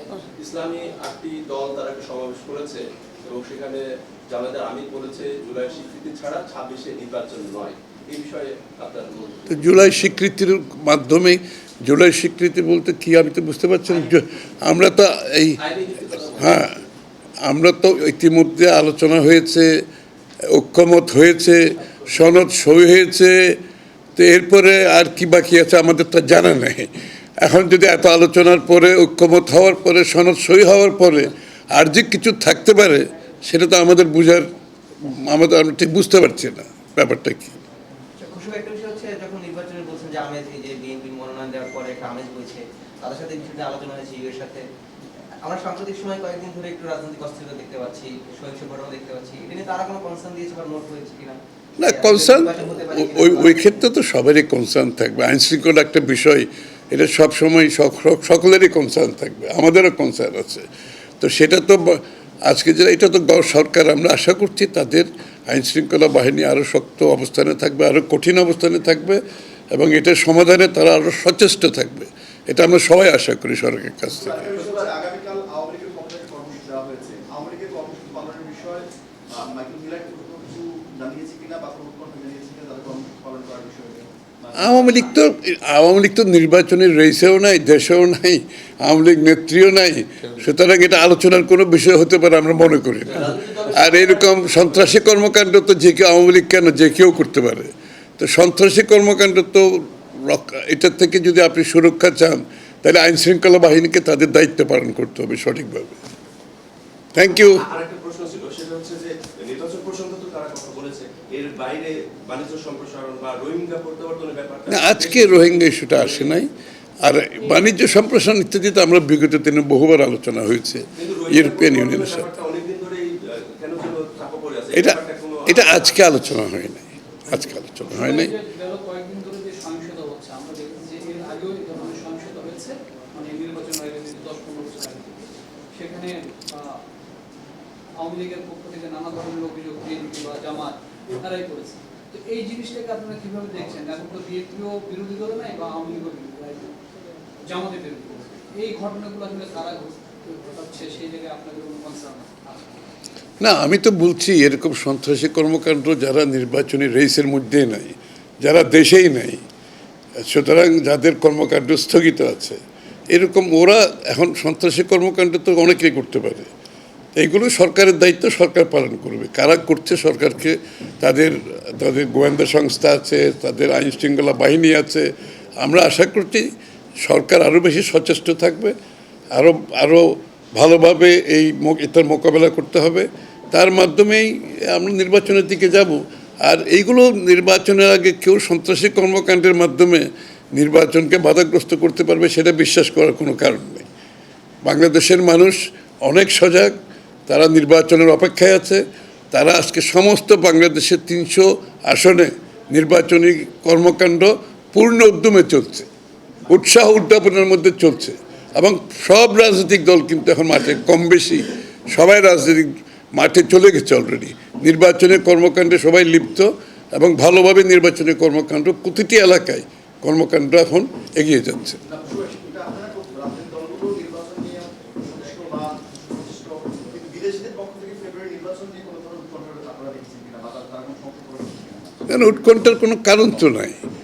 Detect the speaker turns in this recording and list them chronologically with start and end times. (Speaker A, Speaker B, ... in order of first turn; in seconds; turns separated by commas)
Speaker A: 0.4-9.8, Speaker B: 9.5-15.6, Speaker A: 15.6-16.7, Speaker B: 16.4-16.8, Speaker B: 17.4-19.8, Speaker B: 20.5-23.6, Speaker B: 24.1-34.5, Speaker B: 35.0-37.6, Speaker C: 38.2-44.6, Speaker C: 45.4-53.8, Speaker B: 51.8-60.6, Speaker B: 61.2-74.5, Speaker D: 74.2-85.2, Speaker B: 84.6-106.0, Speaker A: 93.0-95.0, Speaker B: 107.1-107.6, Speaker A: 107.2-116.3, Speaker B: 114.7-116.5, Speaker B: 117.0-122.2, Speaker A: 120.9-126.1, Speaker B: 124.7-128.3, Speaker E: 127.9-136.8, Speaker E: 138.0-146.8, Speaker E: 147.4-152.7, Speaker B: 153.4-159.4, Speaker B: 160.2-166.5, Speaker B: 167.2-178.7, Speaker B: 179.3-193.9, Speaker B: 194.6-196.8, Speaker B: 197.3-205.9, Speaker B: 206.5-221.8, Speaker D: 221.8-232.1, Speaker B: 232.1-233.8